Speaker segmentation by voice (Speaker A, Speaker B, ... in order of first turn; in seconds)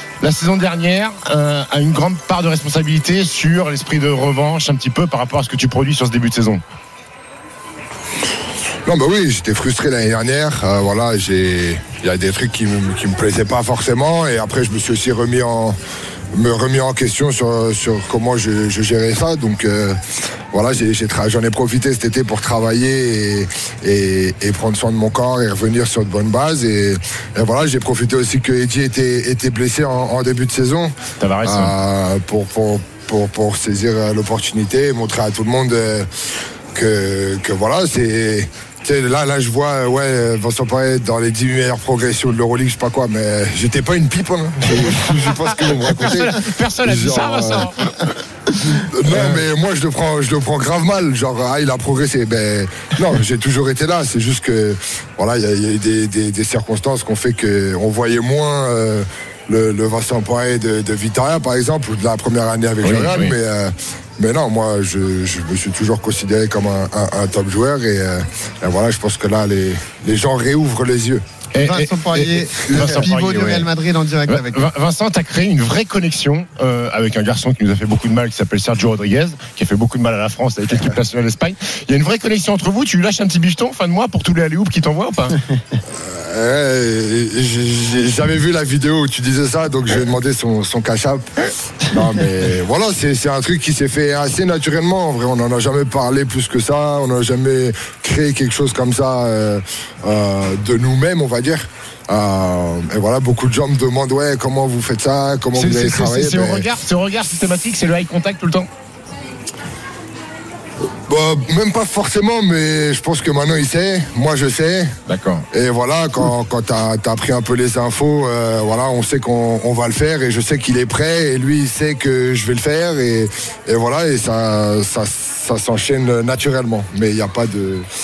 Speaker A: 0.2-6.6, 31.2-31.7, 45.1-47.9, 49.1-49.4, 62.8-63.4, 71.5-73.7, 74.3-85.4, 105.5-108.7, 115.1-115.4
Speaker B: 8.9-15.8, 16.3-20.0, 20.5-36.1, 36.7-47.7, 48.7-71.2, 86.0-91.2, 91.9-106.7, 111.1-114.9, 115.5-127.9
Speaker C: 71.6-74.6